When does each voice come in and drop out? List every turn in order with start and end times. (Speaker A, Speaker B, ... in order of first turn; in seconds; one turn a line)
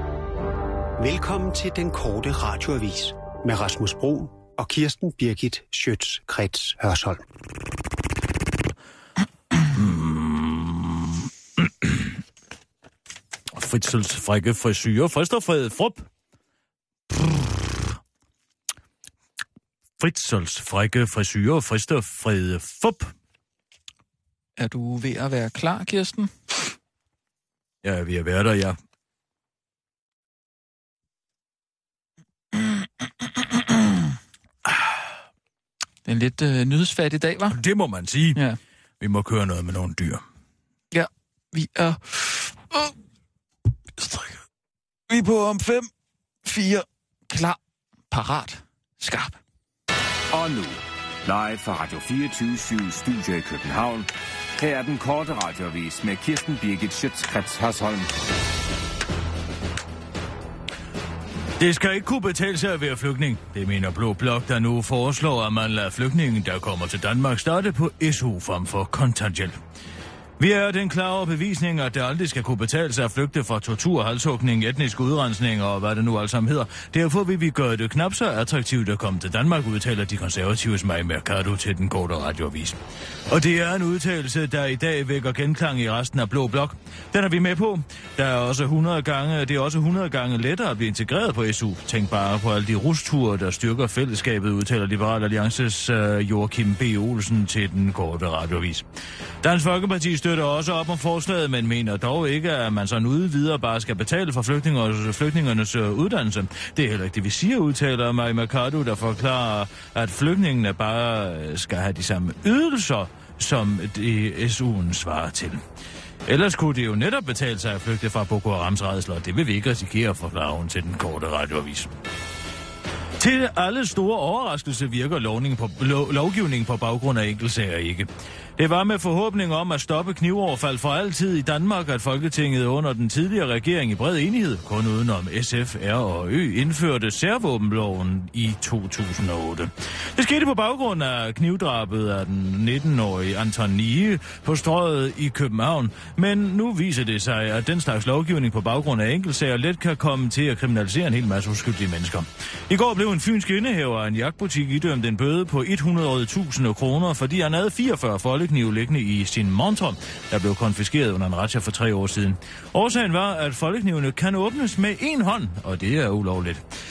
Speaker A: 1.0-7.2
Speaker B: 9.7-12.2
Speaker B: 13.5-16.1
Speaker B: 17.1-18.0
Speaker B: 20.0-23.1
Speaker C: 24.6-26.7
Speaker B: 27.8-28.8
Speaker C: 32.5-34.1
Speaker C: 36.0-37.6
Speaker B: 37.5-38.4
Speaker B: 39.0-40.2
Speaker C: 40.9-42.9
Speaker C: 44.0-44.3
Speaker C: 45.1-45.9
Speaker C: 46.4-47.6
Speaker C: 48.1-49.4
Speaker D: 50.3-54.1
Speaker D: 54.6-58.1
Speaker B: 61.6-69.6
Speaker B: 70.4-98.8
Speaker B: 99.4-115.6
Speaker B: 116.2-121.9
Speaker B: 123.2-166.6